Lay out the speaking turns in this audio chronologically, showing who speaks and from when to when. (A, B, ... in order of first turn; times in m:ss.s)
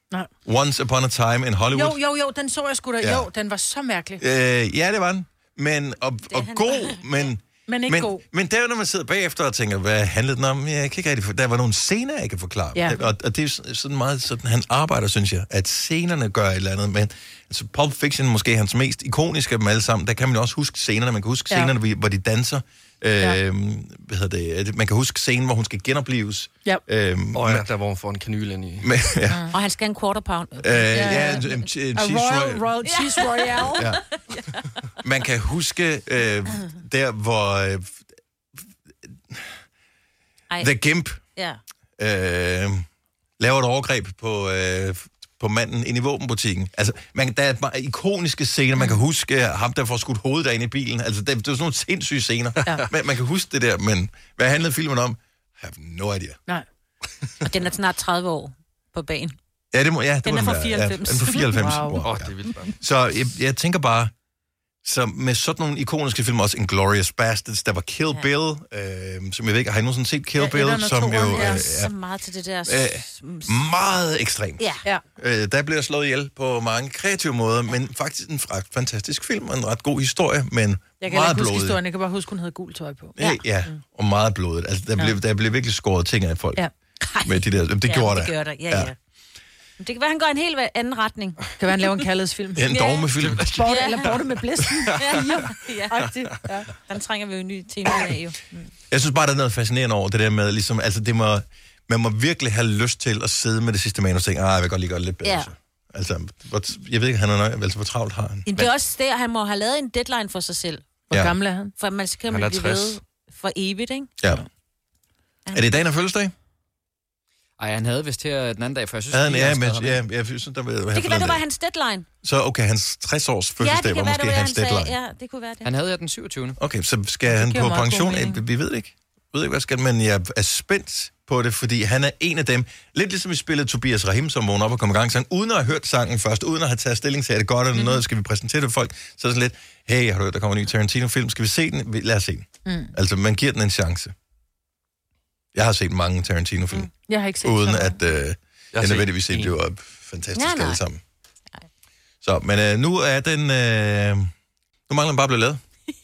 0:00.4-0:02.0 A
0:01.7-0:04.2 B
0:03.0-0:03.3 A
0:04.2-0:27.6 A
0:06.3-0:07.0 C
0:07.7-0:08.2 B
0:27.3-0:28.9 D
0:28.8-0:29.4 A
0:29.5-0:31.6 C
0:30.6-0:32.7 A
0:30.9-0:31.4 B
0:32.0-0:33.9 B
0:32.8-0:34.6 C
0:33.7-0:34.0 A
0:35.0-0:38.0 A
0:39.0-0:39.5 A
0:40.6-0:41.2 A
0:41.3-0:41.6 C
0:42.0-0:42.8 A
0:43.4-0:56.4 A
0:57.4-0:59.4 C
0:59.7-1:04.1 A
1:00.2-1:01.6 C
1:01.5-1:02.0 B
1:02.0-1:02.7 D
1:04.8-1:11.9 A
1:10.4-1:11.6 B
1:11.3-1:13.5 C
1:12.6-1:21.8 A
1:21.0-1:23.8 B
1:23.2-1:26.6 A
1:27.0-1:28.9 C
1:27.2-1:28.9 A
1:29.8-1:31.5 C
1:31.6-1:32.8 B
1:32.6-1:33.7 A
1:32.7-1:33.1 C
1:33.2-1:33.5 D
1:33.4-1:36.7 B
1:33.6-1:34.1 C
1:35.0-1:36.1 C
1:36.9-1:38.4 C
1:38.9-1:48.7 A
1:45.2-1:45.5 C
1:48.5-1:50.9 C
1:51.1-1:51.7 B
1:51.8-1:54.1 C
1:52.3-1:53.0 D
1:55.5-1:55.8 C
1:55.5-1:56.3 A
1:57.6-2:00.0 E
1:59.1-2:01.4 A
2:00.9-2:02.0 C
2:02.2-2:04.9 A
2:03.6-2:05.7 C
2:05.6-2:06.6 E
2:06.6-2:24.1 A
2:07.3-2:08.4 B
2:22.6-2:22.9 B
2:25.5-2:26.9 A
2:27.0-2:28.0 B
2:27.4-2:31.0 A
2:28.7-2:29.5 D
2:30.3-2:30.8 C
2:32.2-2:34.3 A
2:34.9-2:35.6 A